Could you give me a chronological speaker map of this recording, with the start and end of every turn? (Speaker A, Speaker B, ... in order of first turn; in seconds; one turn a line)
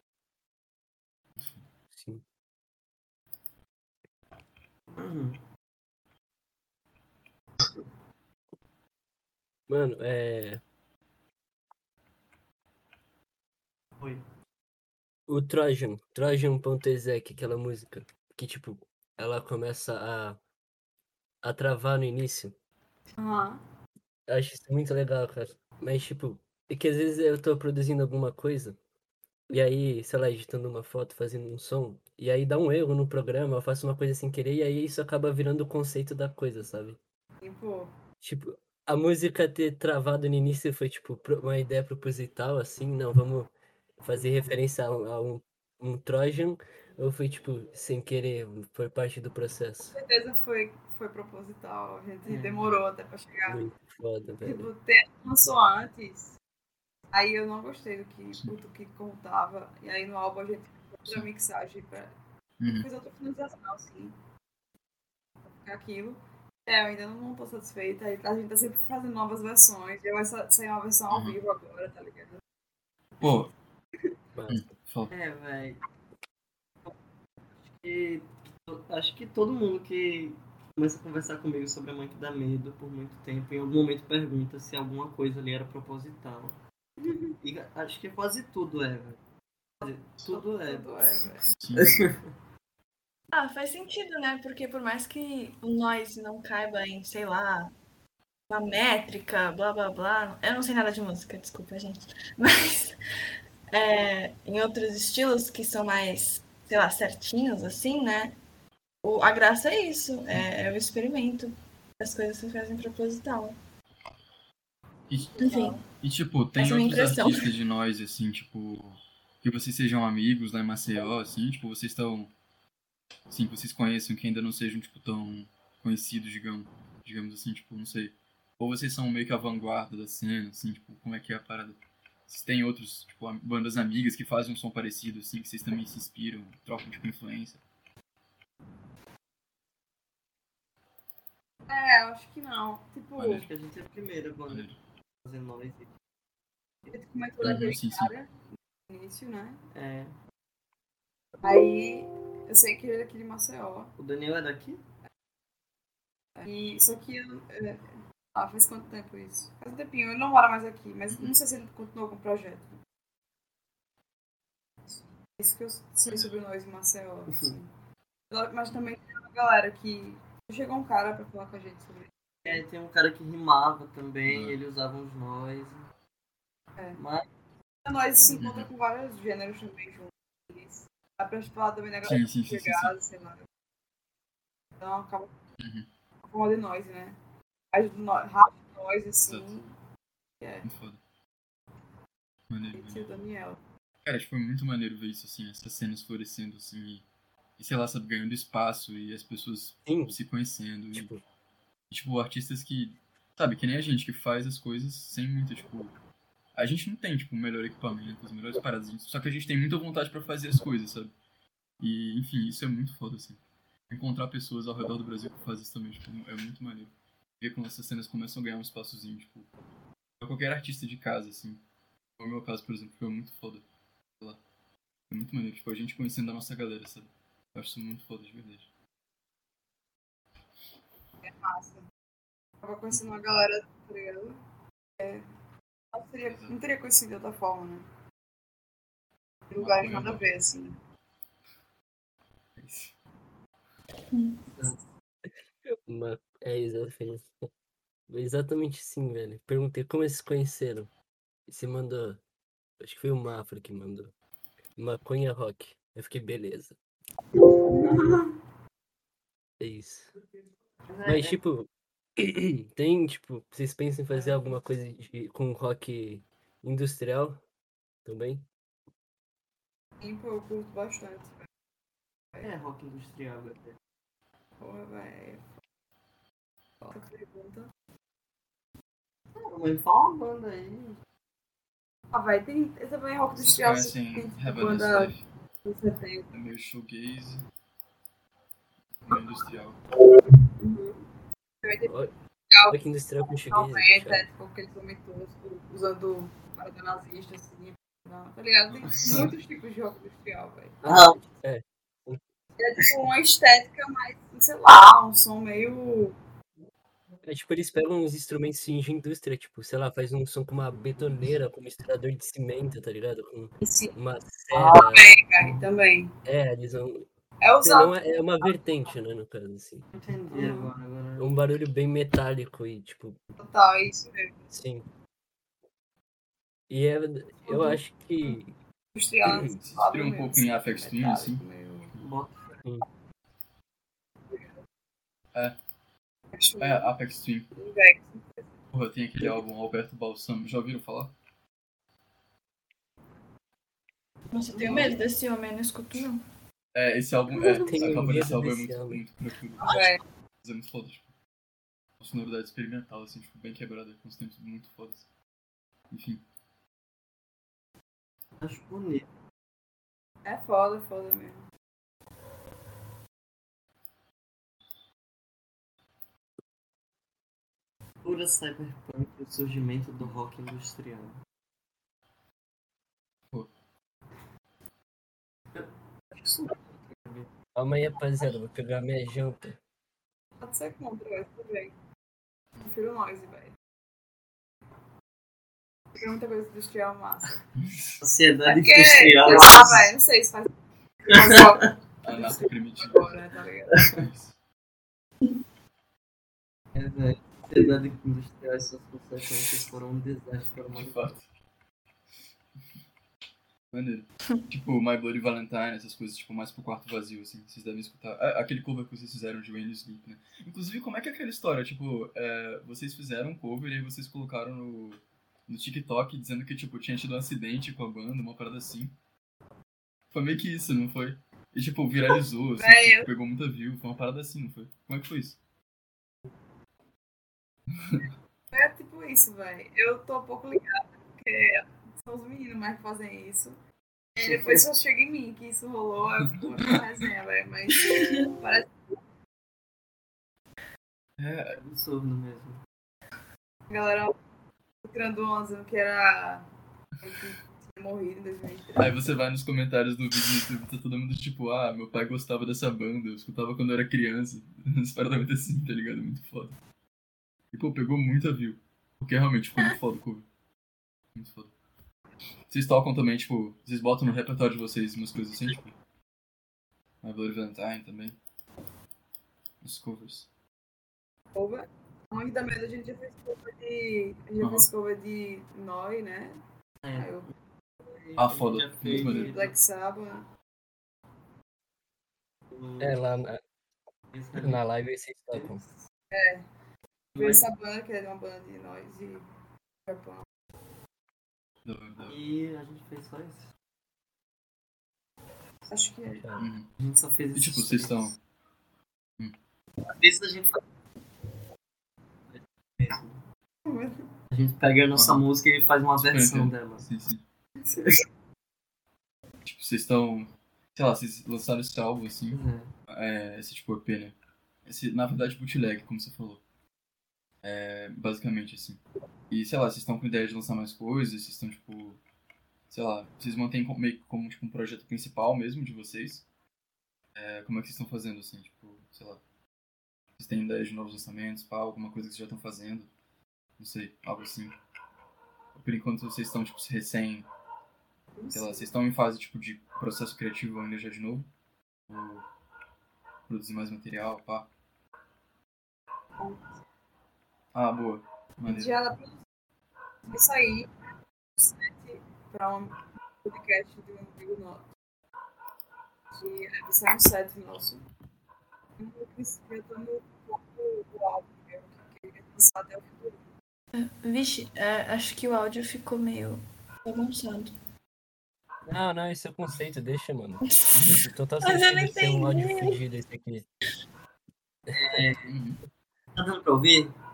Speaker A: 1.9-2.2
Speaker B: 4.9-5.4
Speaker A: 9.7-10.6
Speaker A: 15.3-20.4
Speaker A: 21.4-22.5
Speaker C: 23.2-23.6
Speaker A: 24.3-28.8
Speaker A: 29.5-37.0
Speaker C: 37.4-37.9
Speaker A: 38.2-49.9
Speaker C: 49.9-53.6
Speaker B: 52.2-52.6
Speaker A: 53.4-54.7
Speaker C: 54.4-56.4
Speaker C: 57.1-62.1
Speaker D: 62.6-62.9
Speaker C: 62.6-64.2
Speaker C: 65.4-72.4
Speaker D: 71.1-71.4
Speaker D: 73.2-73.5
Speaker A: 74.3-74.7
Speaker D: 74.5-75.1
Speaker B: 75.1-75.8
Speaker B: 77.7-86.6
Speaker C: 87.0-87.3
Speaker B: 87.4-89.2
Speaker B: 89.8-92.3
Speaker C: 90.2-91.5
Speaker D: 91.6-91.9
Speaker E: 93.3-97.7
Speaker E: 98.5-103.0
Speaker E: 103.7-108.3
Speaker E: 109.0-113.5
Speaker D: 115.1-122.3
Speaker C: 115.4-115.8
Speaker E: 115.4-115.8
Speaker E: 116.6-117.5
Speaker D: 123.3-137.6
Speaker C: 141.7-143.5
Speaker D: 143.2-143.5
Speaker B: 143.2-144.7
Speaker D: 144.5-144.8
Speaker B: 145.2-145.9
Speaker C: 146.9-148.3
Speaker D: 147.4-148.1
Speaker C: 148.9-149.6
Speaker B: 149.7-150.1
Speaker C: 151.4-153.9
Speaker B: 154.0-154.8
Speaker C: 156.4-162.8
Speaker C: 164.8-167.7
Speaker C: 168.3-172.5
Speaker B: 172.4-175.9
Speaker D: 174.3-174.6
Speaker B: 176.9-177.2
Speaker C: 177.8-183.4
Speaker B: 178.2-178.4
Speaker D: 178.4-178.7
Speaker D: 182.0-182.9
Speaker C: 184.8-185.3
Speaker D: 185.6-185.9
Speaker C: 186.2-187.2
Speaker C: 187.7-189.7
Speaker D: 189.2-189.5
Speaker C: 190.4-190.7
Speaker D: 190.6-191.0
Speaker D: 192.5-193.1
Speaker C: 192.7-193.6
Speaker D: 194.0-197.0
Speaker D: 197.6-201.1
Speaker A: 199.9-200.2
Speaker A: 200.9-201.2
Speaker D: 201.9-205.9
Speaker D: 206.5-211.1
Speaker D: 211.8-213.4
Speaker D: 213.9-219.5
Speaker D: 220.2-221.6
Speaker D: 222.2-223.6
Speaker D: 225.1-228.7
Speaker C: 231.2-231.8
Speaker C: 232.6-234.4
Speaker C: 235.0-235.3
Speaker C: 235.9-237.9
Speaker D: 236.3-236.5
Speaker C: 239.5-240.8
Speaker D: 239.6-240.2
Speaker D: 242.6-242.9
Speaker E: 244.1-244.5
Speaker A: 245.9-247.3
Speaker A: 248.1-250.9
Speaker A: 251.5-252.2
Speaker A: 252.8-254.1
Speaker A: 254.8-256.8
Speaker C: 257.7-258.3
Speaker A: 259.6-260.1
Speaker B: 260.9-261.4
Speaker A: 261.0-267.4
Speaker A: 268.0-268.4
Speaker C: 270.0-271.5
Speaker B: 272.4-273.7
Speaker C: 274.6-275.5
Speaker C: 276.8-277.7
Speaker B: 279.4-281.0
Speaker C: 282.1-286.3
Speaker D: 283.4-285.2
Speaker D: 286.3-287.4
Speaker D: 289.1-289.8
Speaker C: 289.1-289.4
Speaker C: 290.6-291.0
Speaker C: 291.6-291.9
Speaker A: 291.9-292.1
Speaker C: 292.5-292.8
Speaker A: 292.7-294.3
Speaker C: 293.4-300.8
Speaker D: 298.7-299.3
Speaker A: 300.8-302.2
Speaker B: 300.8-301.2
Speaker C: 302.6-306.1
Speaker A: 307.2-315.1
Speaker C: 313.6-313.9
Speaker C: 314.6-316.1
Speaker B: 315.4-315.6
Speaker A: 316.2-317.1
Speaker C: 317.4-318.8
Speaker A: 317.6-319.9
Speaker B: 319.9-321.3
Speaker C: 320.3-320.7
Speaker A: 321.2-323.2
Speaker C: 323.4-324.5
Speaker A: 324.5-324.9
Speaker A: 326.7-328.6
Speaker C: 327.4-328.4
Speaker C: 328.9-331.9
Speaker A: 329.2-329.5
Speaker D: 329.6-331.4
Speaker B: 332.0-332.6
Speaker C: 334.3-334.5
Speaker C: 336.3-336.9
Speaker D: 336.6-337.5
Speaker C: 337.5-338.6
Speaker D: 338.7-341.1
Speaker E: 344.3-346.2
Speaker D: 344.6-344.9
Speaker D: 346.7-349.7
Speaker A: 347.7-349.0
Speaker C: 349.6-350.0
Speaker D: 350.4-351.1
Speaker D: 352.0-355.0
Speaker D: 355.9-356.2
Speaker B: 358.4-359.1
Speaker C: 360.2-361.4
Speaker B: 368.0-371.2
Speaker B: 375.5-377.3
Speaker A: 377.6-379.6
Speaker C: 380.4-381.7
Speaker C: 382.6-383.5
Speaker C: 385.9-387.4
Speaker D: 387.6-388.0
Speaker B: 388.0-389.9
Speaker C: 388.4-390.5
Speaker C: 391.0-393.9
Speaker B: 391.1-391.7
Speaker D: 392.0-393.2
Speaker B: 393.7-394.0
Speaker D: 393.9-394.3
Speaker B: 396.7-401.0
Speaker D: 400.7-401.2
Speaker D: 403.7-418.9
Speaker D: 420.1-425.4
Speaker C: 422.6-423.1
Speaker D: 427.8-428.0
Speaker C: 428.5-433.6
Speaker C: 434.1-438.9
Speaker B: 434.2-434.6
Speaker E: 437.9-438.3
Speaker D: 441.2-441.6
Speaker B: 441.5-442.6
Speaker C: 443.7-444.1
Speaker C: 444.8-446.4
Speaker C: 447.0-448.9
Speaker D: 448.8-456.6
Speaker D: 457.5-460.3
Speaker D: 461.1-461.5
Speaker D: 462.5-465.7
Speaker D: 467.0-468.2
Speaker D: 469.6-470.3
Speaker C: 471.3-476.4
Speaker D: 474.4-474.7
Speaker B: 476.8-477.2
Speaker C: 476.9-477.3
Speaker B: 477.9-479.5
Speaker D: 478.2-479.3
Speaker C: 478.9-480.3
Speaker B: 482.5-483.0
Speaker A: 482.8-483.4
Speaker B: 484.1-484.6
Speaker A: 484.4-485.6
Speaker B: 485.3-485.7
Speaker C: 486.1-486.5
Speaker B: 487.1-487.4
Speaker C: 487.2-489.2
Speaker C: 489.9-490.2
Speaker D: 491.6-492.1
Speaker B: 492.1-493.5
Speaker C: 495.7-496.3
Speaker A: 496.1-496.5
Speaker D: 496.4-496.7
Speaker B: 496.8-498.1
Speaker D: 497.3-498.2
Speaker B: 499.8-500.6
Speaker B: 502.3-503.2
Speaker C: 503.6-504.0
Speaker B: 504.3-506.9
Speaker D: 504.9-505.2
Speaker D: 506.0-507.2
Speaker B: 507.7-508.0
Speaker D: 509.4-516.4
Speaker B: 512.3-512.7
Speaker D: 517.4-522.0
Speaker D: 522.7-526.2
Speaker D: 527.1-529.2
Speaker D: 530.2-532.9
Speaker D: 533.6-534.6
Speaker D: 535.5-537.3
Speaker C: 538.1-538.7
Speaker D: 538.3-541.3
Speaker D: 541.9-542.2
Speaker D: 543.3-544.5
Speaker C: 546.2-546.5
Speaker D: 547.5-548.7
Speaker C: 548.5-549.2
Speaker C: 550.1-550.7
Speaker C: 551.4-554.7
Speaker C: 556.1-557.9
Speaker C: 558.8-563.2
Speaker E: 563.7-567.5
Speaker A: 568.7-573.5
Speaker E: 571.4-572.8
Speaker A: 574.7-575.0
Speaker B: 574.7-575.3
Speaker D: 575.3-575.6
Speaker B: 576.1-576.9